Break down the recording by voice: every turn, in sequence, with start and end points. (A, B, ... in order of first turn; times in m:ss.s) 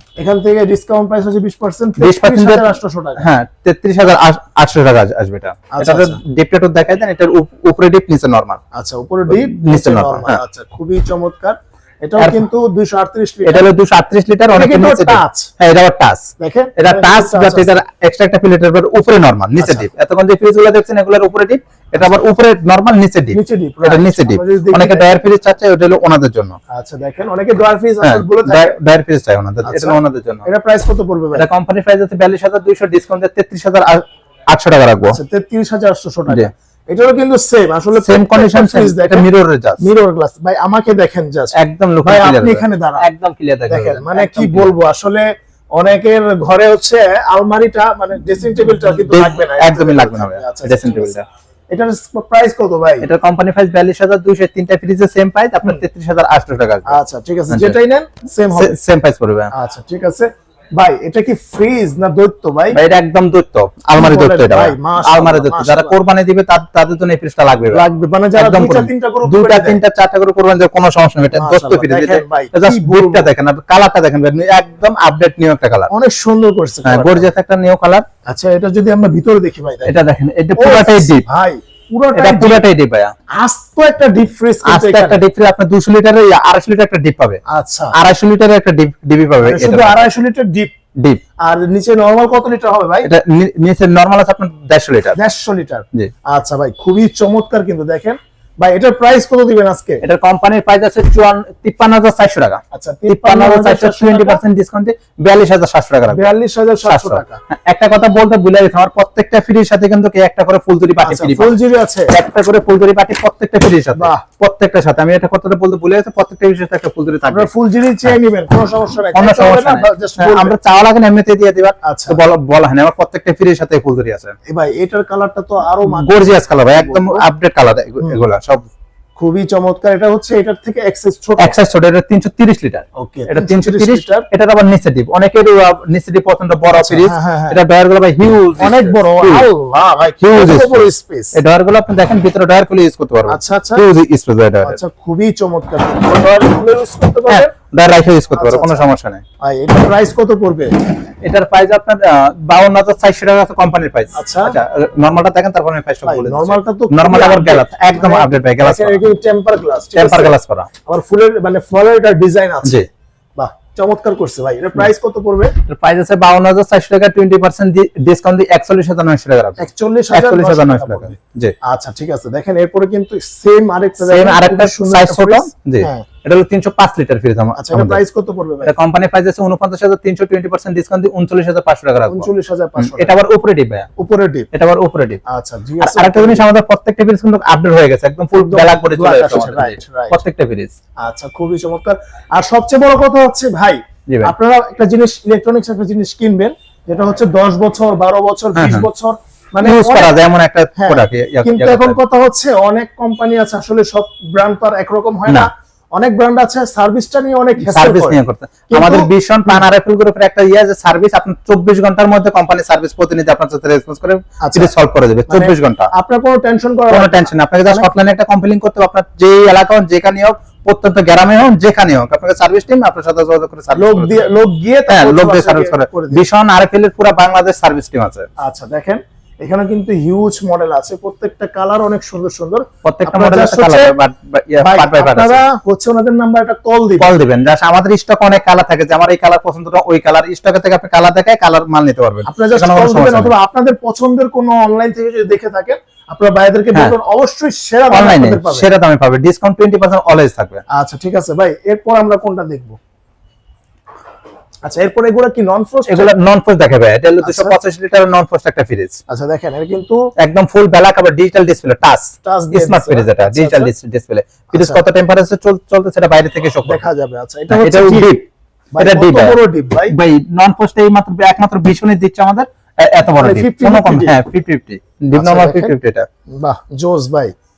0:00.2-0:03.3 A
0:02.0-0:08.6 B
0:05.7-0:06.2 A
0:08.7-0:13.6 A
0:09.3-0:10.4 B
0:12.2-0:12.5 B
0:13.4-0:26.6 B
0:14.5-0:15.5 A
0:16.4-0:17.8 A
0:19.6-0:19.9 A
0:23.3-0:25.2 A
0:26.7-0:28.8 A
0:28.0-0:30.4 B
0:29.6-0:31.5 A
0:31.3-0:35.2 B
0:35.1-0:39.2 A
0:38.0-0:39.8 B
0:39.8-0:43.1 A
0:41.6-0:44.7 B
0:43.7-0:51.2 A
0:48.9-0:51.2 B
0:51.7-0:53.1 A
0:53.0-0:56.9 B
0:56.9-0:58.8 A
0:57.5-0:57.8 B
0:58.5-0:59.5 B
0:59.5-1:02.8 A
1:02.7-1:07.8 B
1:03.9-1:06.0 A
1:07.7-1:09.8 A
1:08.3-1:15.9 B
1:11.3-1:13.3 A
1:15.9-1:17.3 A
1:16.8-1:18.0 B
1:18.3-1:20.0 A
1:19.8-1:21.2 B
1:20.6-1:22.6 A
1:22.1-1:23.1 B
1:23.4-1:25.2 A
1:24.6-1:27.4 B
1:27.5-1:27.9 A
1:27.9-1:30.0 B
1:29.4-1:30.7 A
1:31.4-1:33.1 A
1:33.0-1:35.2 B
1:35.1-1:40.0 A
1:40.0-1:51.6 B
1:42.7-1:44.4 A
1:46.1-1:47.4 A
1:51.0-1:52.1 A
1:52.1-1:57.5 B
1:54.0-1:54.2 A
1:57.3-2:00.5 A
1:59.1-2:04.3 B
2:01.8-2:02.2 A
2:04.5-2:07.2 A
2:05.8-2:08.7 B
2:09.2-2:11.6 A
2:11.4-2:19.5 B
2:13.0-2:14.3 A
2:16.7-2:17.6 A
2:18.6-2:21.4 A
2:20.2-2:24.8 B
2:23.3-2:23.8 A
2:24.6-2:27.5 A
2:27.3-2:29.2 B
2:28.3-2:28.8 A
2:29.4-2:30.7 A
2:31.2-2:39.0 B
2:34.1-2:34.6 A
2:36.0-2:42.8 A
2:40.0-2:40.7 B
2:43.4-2:45.5 A
2:45.6-2:51.5 B
2:49.6-2:56.0 A
2:54.0-2:58.0 B
2:57.6-2:58.7 A
2:58.6-3:03.9 B
3:02.1-3:03.2 A
3:04.0-3:04.5 A
3:04.5-3:05.2 B
3:05.3-3:06.4 A
3:05.8-3:10.7 B
3:08.3-3:10.2 A
3:11.0-3:20.2 A
3:14.1-3:14.3 B
3:18.6-3:18.9 B
3:19.6-3:22.0 B
3:20.8-3:28.2 A
3:27.6-3:35.9 B
3:28.7-3:29.6 A
3:34.4-3:34.7 A
3:35.3-3:37.9 A
3:36.9-3:44.3 B
3:43.7-3:46.2 A
3:44.9-3:48.3 B
3:48.4-3:53.9 A
3:52.8-3:55.4 B
3:54.6-3:57.1 A
3:57.0-4:03.3 B
4:02.2-4:08.7 A
4:07.9-4:10.6 B
4:10.7-4:12.8 A
4:14.6-4:16.1 A
4:15.9-4:19.0 B
4:17.2-4:17.6 A
4:19.1-4:20.1 A
4:20.2-4:26.8 B
4:22.2-4:23.7 A
4:24.5-4:24.8 A
4:26.6-4:28.1 A
4:27.5-4:28.3 B
4:28.7-4:30.0 A
4:28.8-4:36.0 B
4:33.2-4:34.2 A
4:35.1-4:35.7 A
4:36.3-4:37.3 A